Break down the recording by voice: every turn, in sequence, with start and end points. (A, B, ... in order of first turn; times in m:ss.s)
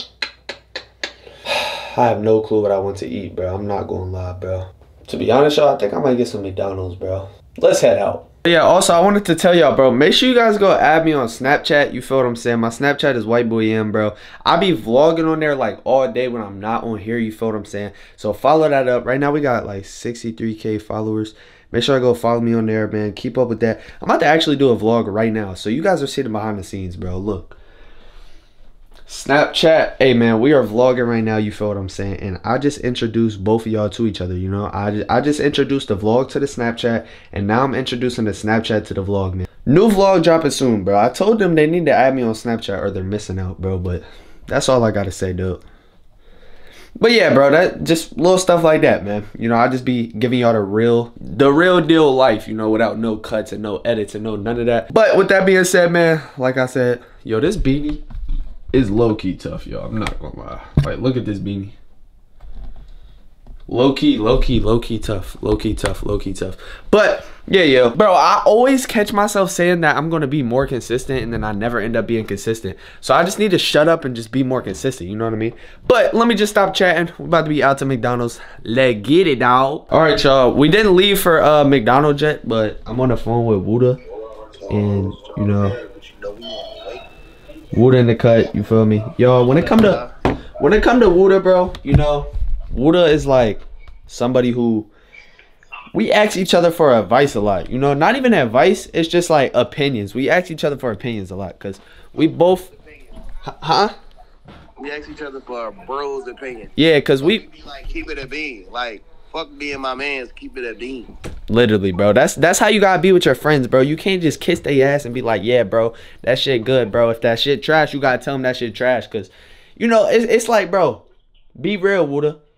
0:01.4-0:27.6 A
0:29.1-0:45.6 A
0:47.0-0:58.0 A
0:58.7-1:01.7 A
1:03.7-1:24.0 A
1:24.7-1:25.8 A
1:25.9-1:27.0 B
1:27.7-1:30.0 A
1:29.6-1:30.1 B
1:30.6-1:34.9 A
1:35.9-1:42.7 A
1:43.4-1:43.9 A
1:44.8-1:51.1 B
1:46.8-1:47.4 A
1:51.5-2:01.0 A
2:01.6-2:02.4 A